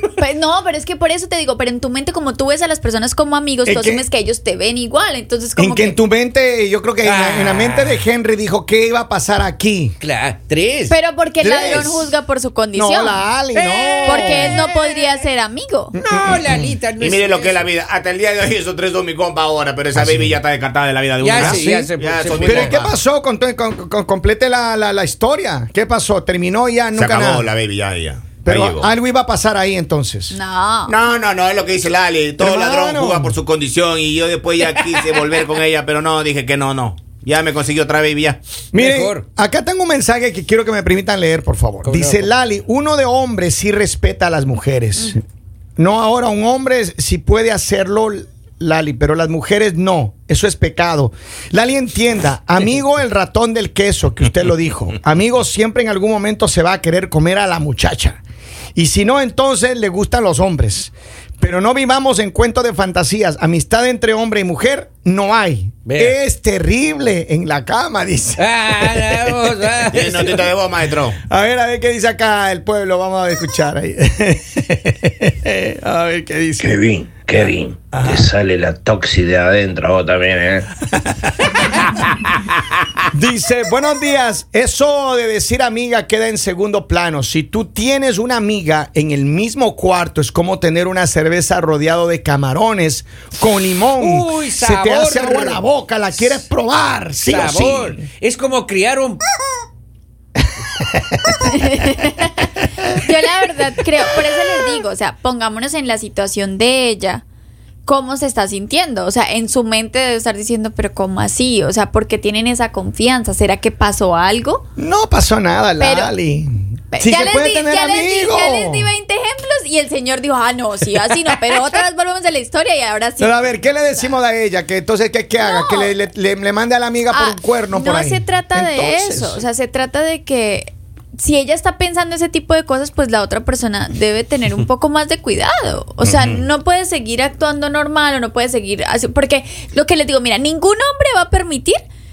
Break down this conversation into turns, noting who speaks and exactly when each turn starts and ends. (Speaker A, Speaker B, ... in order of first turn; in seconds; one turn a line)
Speaker A: 0.2-6.0
Speaker B: 3.6-4.0
Speaker B: 5.6-10.0
Speaker C: 7.0-8.1
Speaker C: 10.0-10.9
Speaker A: 10.9-13.2
Speaker B: 11.4-12.1
Speaker B: 12.7-14.6
Speaker C: 13.5-15.2
Speaker A: 14.1-16.0
Speaker B: 15.9-16.8
Speaker C: 16.0-17.7
Speaker D: 17.0-23.0
Speaker B: 19.9-20.4
Speaker C: 21.2-22.8
Speaker B: 21.4-27.5
Speaker D: 26.9-28.9
Speaker B: 28.4-30.4
Speaker A: 30.3-30.9
Speaker D: 30.9-38.4
Speaker B: 32.4-33.4
Speaker C: 34.6-35.4
Speaker B: 38.7-45.2
Speaker C: 38.8-39.2
Speaker C: 41.8-42.3
Speaker B: 45.8-58.2
Speaker B: 58.8-69.3
Speaker C: 65.8-66.2
Speaker C: 68.4-70.5
Speaker D: 69.9-71.2
Speaker B: 71.2-76.8
Speaker E: 76.6-80.7
Speaker B: 77.9-78.3
Speaker B: 83.1-98.0
Speaker C: 94.0-95.6
Speaker C: 97.2-99.2
Speaker B: 100.7-101.3
Speaker A: 101.4-107.2
Speaker A: 107.9-114.6
Speaker B: 114.8-118.9
Speaker A: 115.8-116.1
Speaker A: 116.9-124.1
Speaker B: 123.2-129.4
Speaker A: 125.4-126.0
Speaker A: 127.1-141.8
Speaker B: 136.0-136.5